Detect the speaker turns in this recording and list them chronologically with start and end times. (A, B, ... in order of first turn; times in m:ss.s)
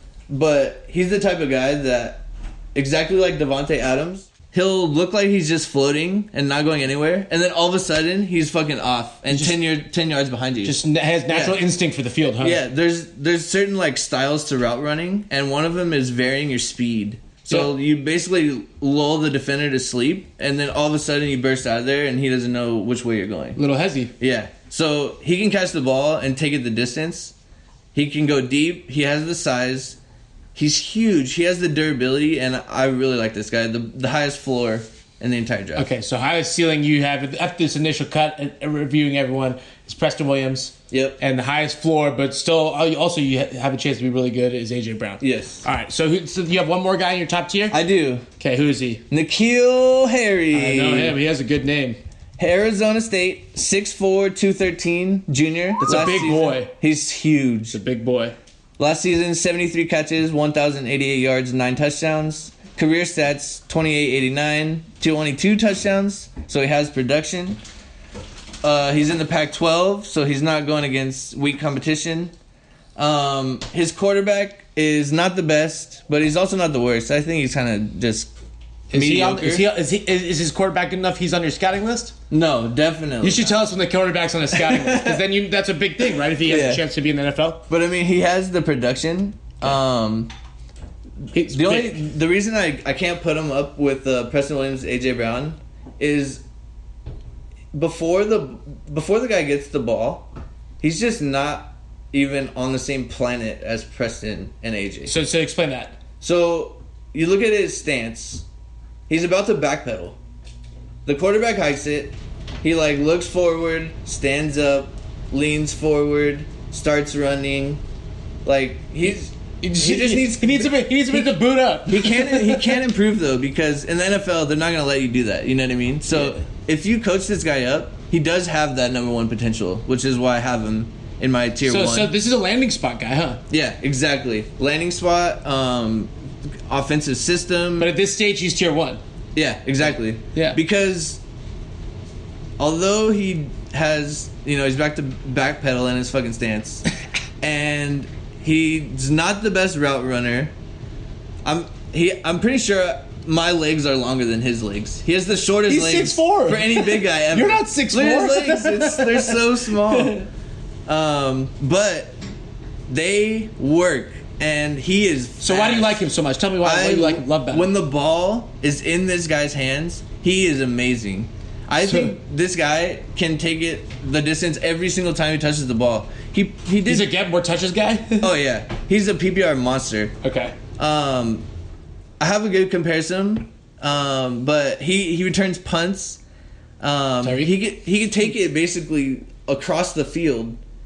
0:00.3-0:10.8 A
0:09.3-0:09.6 B
0:10.6-0:12.6 B
0:11.3-0:11.6 A
0:12.4-0:23.6 A
0:17.5-0:17.7 B
0:23.6-0:24.1 B
0:24.2-0:27.3 A
0:27.9-0:30.0 A
0:30.5-0:35.9 A
0:35.8-0:47.8 B
0:40.9-0:41.2 A
0:45.2-0:45.6 A
0:47.7-0:48.2 A
0:48.4-0:49.0 B
0:49.1-0:51.2 A
0:50.5-0:52.0 B
0:52.4-0:57.8 A
0:55.8-0:56.7 B
0:57.7-0:58.4 B
0:58.8-1:07.6 A
1:08.6-1:12.3 A
1:13.0-1:18.3 A
1:18.9-1:22.1 B
1:18.9-1:19.6 A
1:22.3-1:23.6 A
1:23.2-1:27.6 B
1:24.5-1:25.2 A
1:26.4-1:26.8 A
1:27.7-1:30.3 A
1:31.3-1:32.0 B
1:31.5-1:36.4 A
1:37.7-1:40.3 A
1:40.8-1:45.2 A
1:45.0-1:46.0 B
1:46.2-1:48.4 A
1:49.1-1:50.2 A
1:51.0-1:57.8 A
1:58.4-2:01.3 A
1:59.0-2:02.8 B
2:01.9-2:12.1 A
2:06.1-2:06.4 B
2:11.6-2:13.4 B
2:13.5-2:16.1 A
2:16.7-2:17.9 A
2:17.8-2:19.0 B
2:19.3-2:21.2 A
2:22.6-2:26.8 A
2:27.4-2:30.5 A
2:31.4-2:40.2 A
2:35.7-2:40.3 B
2:40.9-2:42.2 A
2:42.9-2:46.0 A
2:45.4-2:47.7 B
2:46.6-2:57.1 A
2:56.8-2:58.3 B
2:58.2-3:00.1 A
3:00.2-3:00.6 B
3:00.8-3:01.4 A
3:02.2-3:06.2 A
3:06.8-3:10.6 A
3:07.2-3:07.5 B